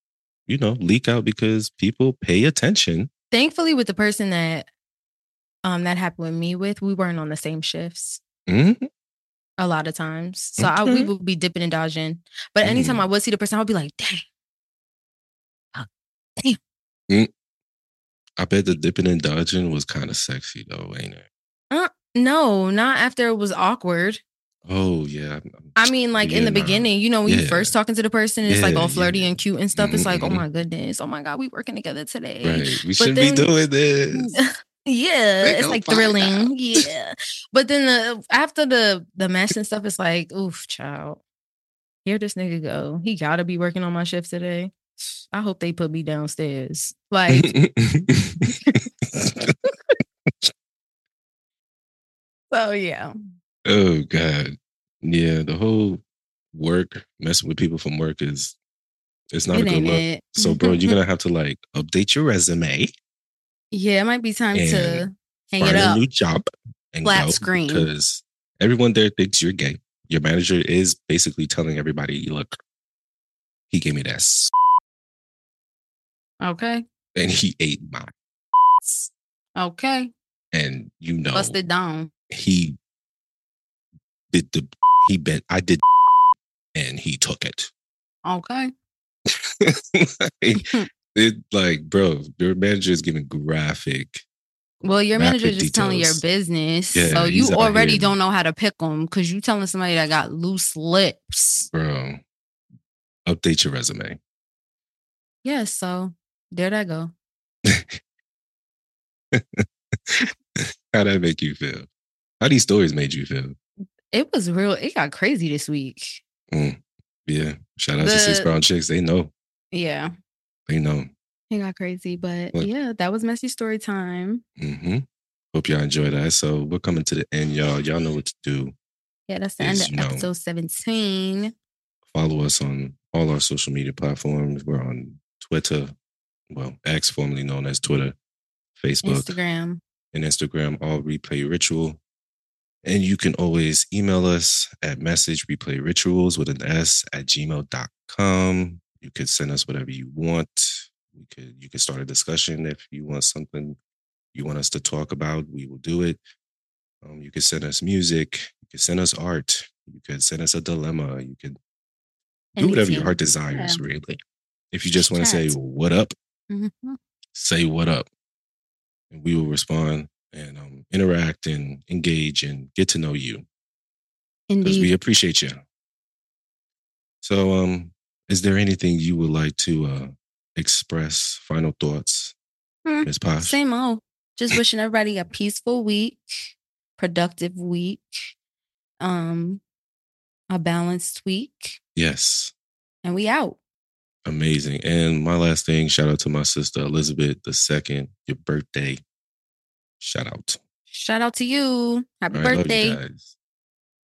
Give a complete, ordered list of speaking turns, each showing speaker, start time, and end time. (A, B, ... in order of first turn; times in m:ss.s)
0:00.5-0:03.1 A
0:03.3-0:04.7 B
0:05.6-0:08.2 B
0:08.5-0:08.9 A
0:09.6-0:14.2 B
0:10.6-0:11.1 A
0:12.6-0:13.0 A
0:18.4-0:21.2 A
0:21.7-0:24.2 B
0:24.6-0:27.7 A
0:25.8-0:33.5 B
0:28.4-0:30.4 A
0:32.4-0:34.3 A
0:34.1-0:41.2 B
0:35.4-0:36.5 A
0:42.0-0:47.5 B
0:47.3-0:48.5 A
0:48.5-0:48.8 B
0:49.1-0:49.5 A
0:52.5-0:53.1 B
0:53.6-0:56.0 A
0:56.5-0:58.6 A
0:59.3-1:02.9 A
0:59.5-1:00.9 B
1:03.7-1:06.0 B
1:04.5-1:05.0 A
1:05.6-1:12.5 A
1:07.0-1:07.9 B
1:13.7-1:14.5 A
1:16.4-1:16.8 B
1:17.1-1:18.1 A
1:18.8-1:20.1 B
1:20.5-1:21.6 A
1:21.3-1:22.1 B
1:22.3-1:22.8 A
1:24.3-1:25.8 A
1:26.7-1:27.7 A
1:28.2-1:28.7 B
1:29.3-1:34.2 A
1:30.5-1:30.9 B
1:34.8-1:41.7 B
1:35.2-1:36.2 A
1:36.9-1:38.1 A
1:41.7-1:42.2 A
1:43.2-1:44.2 A
1:45.4-1:47.1 B
1:47.6-1:48.0 A
1:49.3-1:51.9 A
1:52.4-1:53.6 A
1:54.1-1:56.2 B
1:56.5-1:59.3 A
1:58.0-1:58.5 B
1:59.7-2:00.1 B
2:00.7-2:01.1 A
2:01.5-2:04.4 B
2:04.6-2:08.7 A
2:09.3-2:11.5 B
2:09.6-2:10.3 A
2:12.1-2:15.9 A
2:16.5-2:18.2 A
2:18.8-2:19.4 A
2:19.0-2:19.8 B
2:20.1-2:22.0 A
2:22.8-2:33.8 A
2:34.3-2:36.2 A
2:37.0-2:41.6 A
2:42.6-2:44.2 A
2:42.6-2:43.8 B
2:44.7-2:46.1 A
2:45.0-2:45.6 B
2:46.5-2:47.0 B
2:47.3-2:48.1 A
2:49.1-2:53.4 A
2:54.5-2:54.9 B
2:54.6-2:55.6 A
2:57.2-3:02.3 A
3:02.8-3:08.3 B
3:03.0-3:03.6 A
3:09.0-3:09.6 B
3:10.5-3:11.8 B
3:12.0-3:12.5 A
3:13.0-3:13.6 B
3:14.2-3:19.0 A
3:20.0-3:20.6 A
3:20.9-3:23.0 B
3:22.3-3:23.3 A